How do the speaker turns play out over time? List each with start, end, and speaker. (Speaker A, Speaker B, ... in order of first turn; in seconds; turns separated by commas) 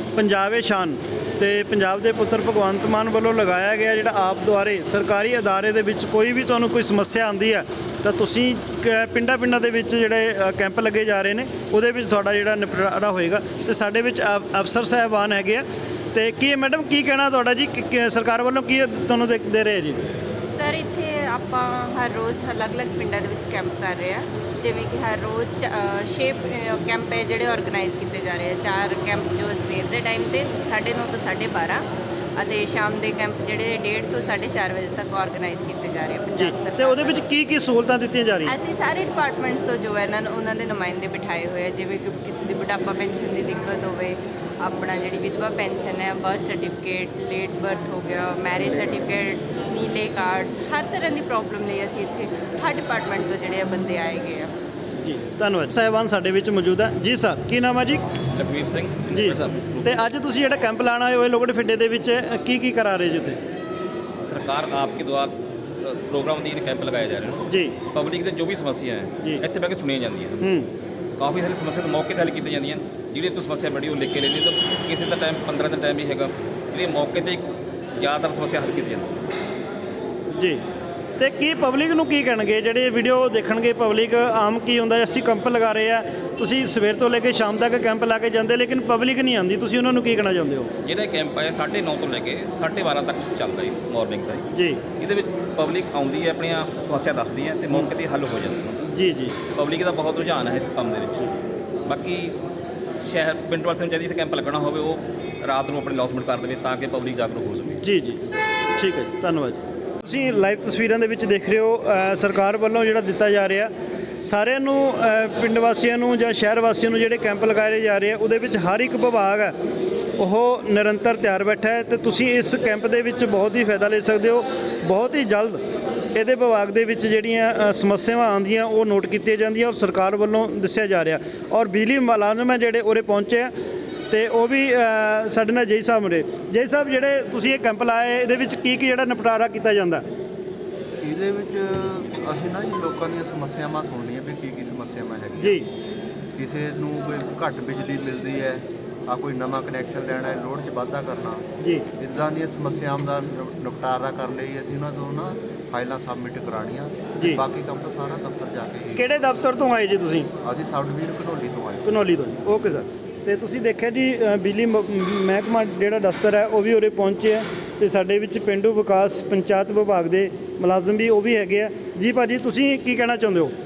Speaker A: 0.1-20.0, Speaker B: 20.5-25.6, Speaker B: 26.1-31.8, Speaker B: 32.4-36.8, Speaker A: 36.4-38.5, Speaker B: 38.6-44.1, Speaker B: 44.7-54.5, Speaker A: 55.0-58.0, Speaker C: 58.3-60.1, Speaker A: 59.1-63.4, Speaker C: 64.2-67.4, Speaker A: 67.5-67.8, Speaker C: 67.9-70.4, Speaker A: 70.4-70.7, Speaker C: 71.2-77.5, Speaker C: 78.0-79.1, Speaker A: 81.2-90.7, Speaker C: 90.8-94.5, Speaker A: 94.5-94.8, Speaker C: 95.0-98.9, Speaker A: 98.9-99.3, Speaker C: 99.5-101.3, Speaker C: 101.9-102.3, Speaker C: 103.0-107.7, Speaker A: 107.8-108.2, Speaker A: 108.8-113.7, Speaker A: 114.2-119.5, Speaker A: 120.2-125.6, Speaker A: 126.1-133.5, Speaker A: 134.1-140.0, Speaker D: 141.0-145.6, Speaker A: 145.4-145.7, Speaker D: 146.3-151.4, Speaker A: 151.6-151.8, Speaker D: 152.0-159.1, Speaker A: 158.9-160.3, Speaker D: 160.4-162.0, Speaker A: 161.8-173.5